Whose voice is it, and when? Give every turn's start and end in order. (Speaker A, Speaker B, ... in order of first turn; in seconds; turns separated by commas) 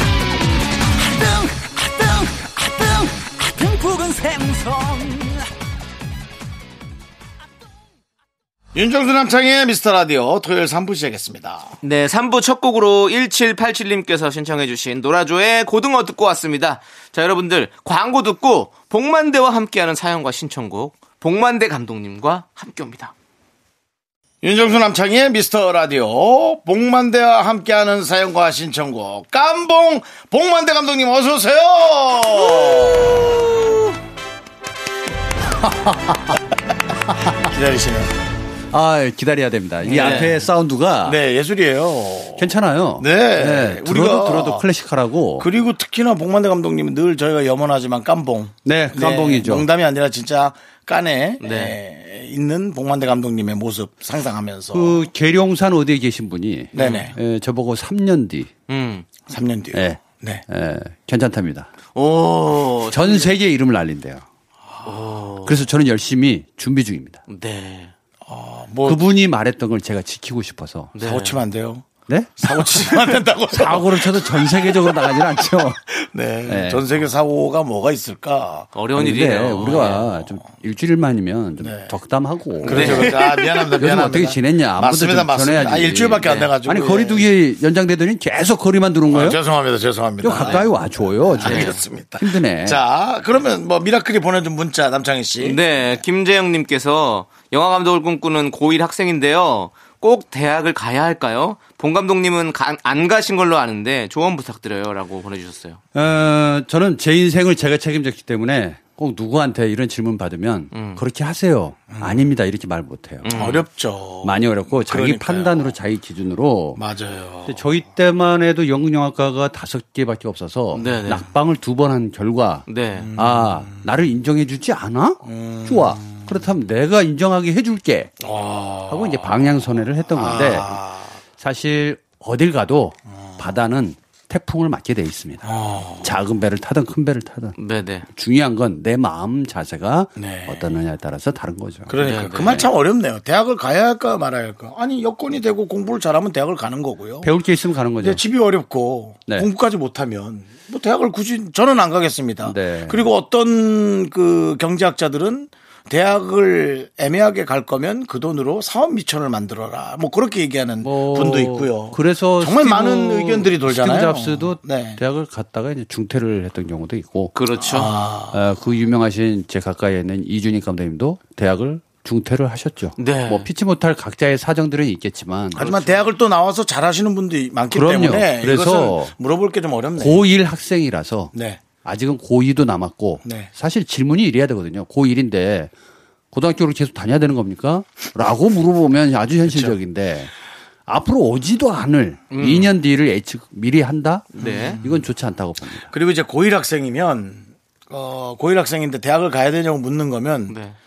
Speaker A: 1.0-5.5, Speaker B: 8.7-11.8, Speaker C: 11.8-23.1, Speaker B: 24.4-33.5, Speaker D: 35.6-36.3, Speaker B: 37.4-38.1, Speaker D: 38.7-41.2, Speaker B: 39.9-40.4, Speaker C: 39.9-40.3, Speaker B: 41.0-44.7, Speaker D: 42.4-45.5, Speaker B: 45.4-55.1, Speaker D: 48.6-49.7, Speaker C: 51.4-51.8, Speaker D: 54.7-58.5, Speaker B: 56.7-57.2, Speaker C: 56.8-57.1, Speaker C: 58.7-59.1, Speaker B: 59.3-60.4, Speaker D: 59.7-61.7, Speaker C: 61.9-63.3, Speaker D: 62.9-64.2, Speaker C: 64.8-65.6, Speaker D: 65.4-67.2, Speaker C: 67.3-67.9, Speaker B: 68.2-69.0, Speaker D: 68.8-70.9, Speaker C: 70.9-71.4, Speaker B: 71.0-71.9, Speaker D: 72.1-75.8, Speaker B: 72.4-78.7, Speaker D: 76.5-76.8, Speaker C: 78.7-80.1, Speaker D: 79.0-89.4, Speaker B: 79.7-80.1, Speaker B: 81.6-82.0, Speaker B: 82.6-87.3, Speaker C: 82.7-83.4, Speaker C: 86.2-86.5, Speaker B: 89.1-95.6, Speaker D: 90.2-92.8, Speaker C: 90.4-90.7, Speaker C: 91.4-91.8, Speaker C: 95.4-105.8, Speaker D: 105.9-113.5, Speaker C: 110.7-111.0, Speaker B: 111.9-112.3, Speaker C: 113.2-113.6, Speaker B: 113.3-115.7, Speaker D: 114.2-116.8, Speaker B: 116.8-117.7, Speaker D: 117.5-128.1, Speaker C: 120.7-121.2, Speaker C: 122.7-123.1, Speaker B: 123.0-123.8, Speaker B: 125.2-126.4, Speaker B: 128.2-129.5, Speaker D: 128.9-130.8, Speaker B: 130.1-131.1, Speaker D: 131.3-142.7, Speaker B: 133.2-133.5, Speaker B: 135.4-136.2, Speaker C: 137.6-138.1, Speaker B: 140.2-140.7, Speaker B: 141.9-147.3, Speaker C: 142.0-142.6, Speaker D: 147.2-148.2, Speaker B: 148.0-165.0, Speaker D: 152.4-153.1, Speaker D: 160.8-167.3, Speaker C: 167.3-167.9, Speaker B: 167.6-168.4, Speaker D: 168.3-175.6, Speaker C: 173.0-173.5, Speaker B: 175.5-180.3, Speaker C: 175.6-176.0, Speaker D: 177.7-179.1, Speaker D: 180.0-185.7, Speaker B: 181.3-181.6, Speaker B: 183.2-183.5, Speaker D: 186.3-190.3, Speaker B: 189.4-189.8, Speaker D: 190.9-195.9, Speaker C: 192.3-192.7, Speaker C: 194.3-194.8, Speaker B: 194.4-195.1, Speaker B: 195.9-200.6, Speaker C: 200.5-200.8